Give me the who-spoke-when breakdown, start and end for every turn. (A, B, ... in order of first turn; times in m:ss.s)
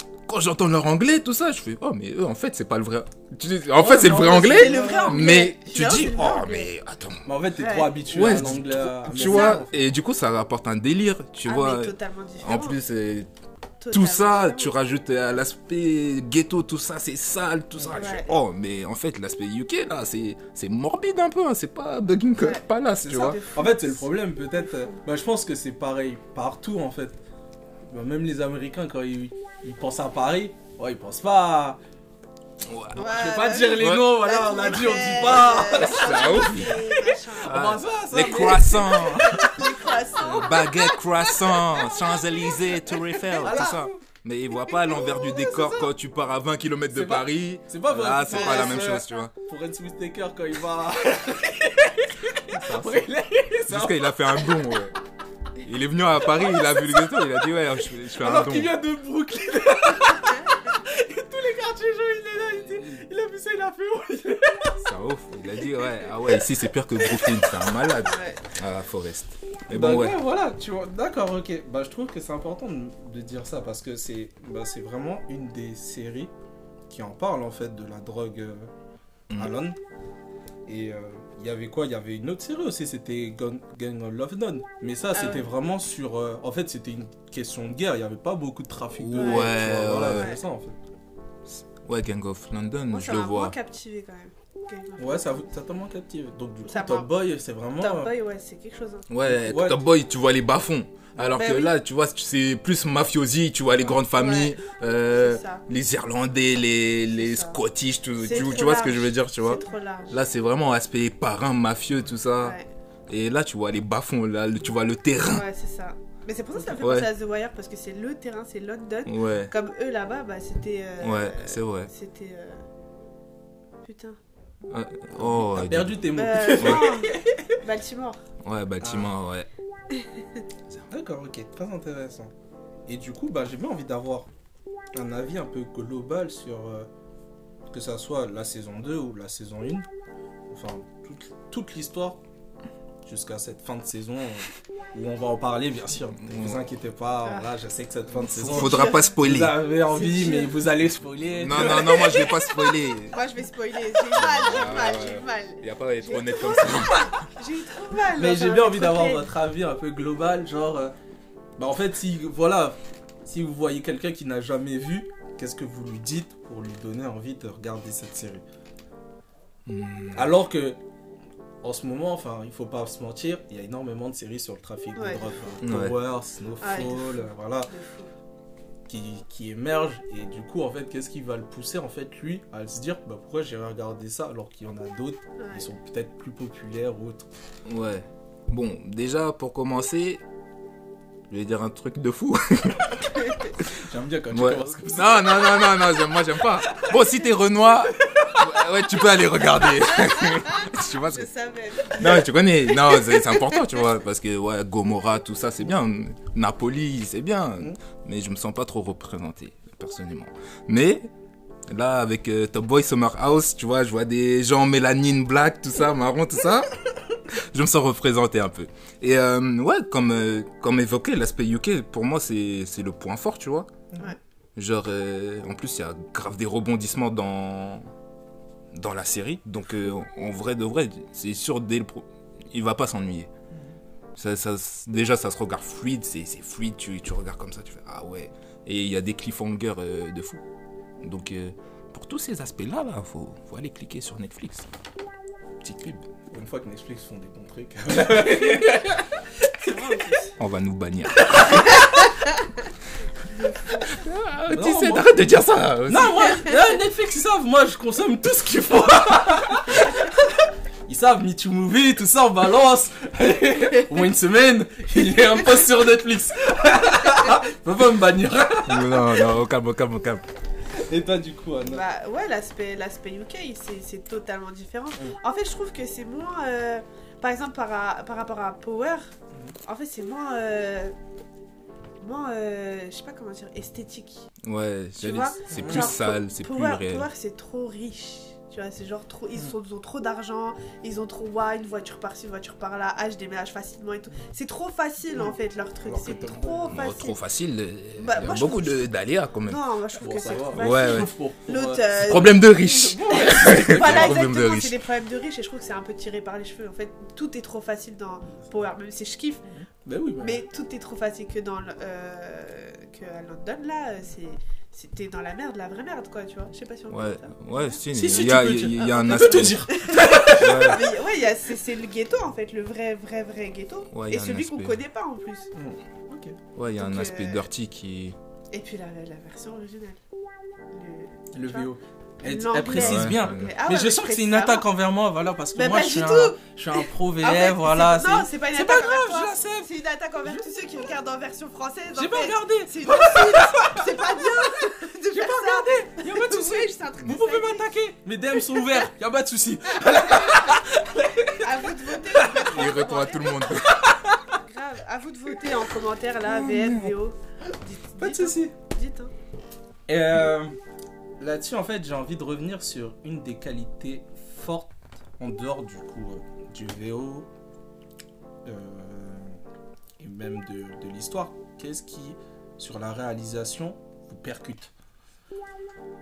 0:00.3-0:07.2 A
0:03.8-0:05.3 B
0:04.3-0:06.7 C
0:07.3-0:09.7 B
0:07.6-0:08.0 C
0:08.0-0:13.3 A
0:09.2-0:09.6 C
0:11.4-0:12.8 C
0:13.8-0:14.7 C
0:13.9-0:23.4 A
0:17.8-0:18.0 B
0:17.9-0:18.4 C
0:22.4-0:24.0 C
0:23.6-0:27.2 B
0:24.6-0:25.0 C
0:27.8-0:31.8 B
0:32.6-0:34.1 A
0:32.9-0:40.5 B
0:32.9-0:41.4 C
0:35.7-0:36.8 A
0:37.4-0:39.5 A
0:40.2-0:49.3 A
0:41.7-0:42.3 B
0:42.7-0:43.8 C
0:43.4-0:43.9 B
0:44.6-0:45.9 C
0:46.9-0:54.7 B
0:48.3-0:48.9 C
0:52.5-0:53.1 A
0:53.7-0:55.0 A
0:55.6-0:58.7 A
0:56.4-0:57.2 B
0:58.1-1:04.9 B
1:02.6-1:03.0 A
1:04.8-1:10.2 A
1:07.0-1:07.7 B
1:08.0-1:08.4 C
1:09.7-1:16.3 B
1:16.9-1:18.7 B
1:19.4-1:19.8 B
1:20.7-1:30.8 B
1:25.1-1:25.5 C
1:29.0-1:30.3 A
1:29.1-1:29.6 C
1:30.1-1:30.4 C
1:31.5-1:33.5 A
1:32.9-1:35.5 C
1:35.0-1:38.1 B
1:36.7-1:37.1 C
1:37.8-1:39.1 C
1:39.1-1:52.6 A
1:39.2-1:39.8 B
1:41.2-1:41.7 C
1:44.2-1:44.6 C
1:45.1-1:45.6 C
1:47.2-1:47.6 C
1:48.2-1:50.2 C
1:48.3-1:48.6 B
1:52.4-1:52.7 C
1:53.1-1:55.5 A
1:55.3-2:02.6 C
1:56.7-1:57.1 A
1:59.0-1:59.5 A
2:01.0-2:01.9 A
2:03.8-2:04.2 C
2:04.7-2:06.0 A
2:05.2-2:07.4 B
2:06.1-2:08.2 C
2:06.6-2:06.9 A
2:08.4-2:09.5 A
2:08.8-2:09.1 B
2:09.9-2:10.4 C
2:10.9-2:12.3 B
2:12.9-2:14.3 B
2:14.9-2:16.9 B
2:17.7-2:19.9 B
2:20.5-2:22.2 B
2:23.0-2:32.3 B
2:26.2-2:26.6 A
2:28.1-2:29.6 A
2:28.5-2:29.1 C
2:29.9-2:30.5 C
2:31.4-2:33.2 A
2:31.6-2:32.3 C
2:33.1-2:39.2 C
2:34.1-2:37.3 A
2:38.1-2:41.0 B
2:41.6-2:48.4 B
2:49.7-2:50.4 A
2:50.1-2:50.8 B
2:51.6-2:57.7 B
2:55.0-2:55.2 C
2:55.6-2:56.0 A
2:56.6-2:58.1 C
2:58.9-3:07.3 B
3:05.4-3:05.7 C
3:07.6-3:10.2 A
3:11.3-3:13.7 A
3:13.2-3:13.5 C
3:13.6-3:15.8 B
3:14.3-3:21.3 A
3:16.7-3:17.0 B
3:17.9-3:18.8 B
3:19.8-3:23.8 C
3:21.9-3:31.1 A
3:31.7-3:36.7 A
3:37.3-3:43.7 A
3:44.6-3:47.9 A
3:48.7-3:53.3 A
3:54.2-4:00.4 A
4:01.0-4:04.7 A
4:05.6-4:06.1 A
4:06.3-4:09.8 B
4:09.6-4:10.4 C
4:10.4-4:11.7 A
4:11.3-4:11.9 B
4:13.3-4:13.9 C
4:13.9-4:16.5 A
4:14.5-4:15.1 B
4:15.9-4:20.3 B
4:20.9-4:29.1 B
4:28.7-4:30.2 A
4:30.8-4:31.8 B
4:31.6-4:39.1 C
4:39.6-4:41.0 C
4:42.0-4:44.3 C
4:44.4-4:47.1 A
4:45.0-4:57.2 C
4:45.5-4:45.9 B
4:55.1-4:56.8 B
4:56.7-4:59.6 A
4:58.0-4:58.9 C
4:59.5-5:02.5 C
5:00.0-5:04.2 B
5:00.5-5:01.1 A
5:01.9-5:04.8 A
5:03.1-5:09.5 C
5:09.5-5:10.4 B
5:10.2-5:17.8 C
5:16.9-5:20.9 A
5:17.9-5:20.8 B
5:19.4-5:25.5 C
5:23.9-5:24.8 A
5:25.5-5:26.4 B
5:26.6-5:28.2 A
5:26.8-5:27.5 C
5:28.5-5:30.0 C
5:30.7-5:31.7 C
5:31.3-5:39.7 B
5:32.2-5:34.6 C
5:32.7-5:33.5 A
5:35.6-5:47.7 C
5:40.2-5:40.5 B
5:42.0-5:44.4 B
5:45.1-5:52.7 B
5:51.4-5:53.3 C
5:52.4-5:53.9 A
5:53.7-5:54.2 B
5:54.4-5:59.1 C
5:56.5-5:56.8 A
5:58.0-5:58.5 B
5:59.9-6:00.6 B
6:01.2-6:07.3 B
6:08.4-6:09.4 B
6:10.0-6:14.7 B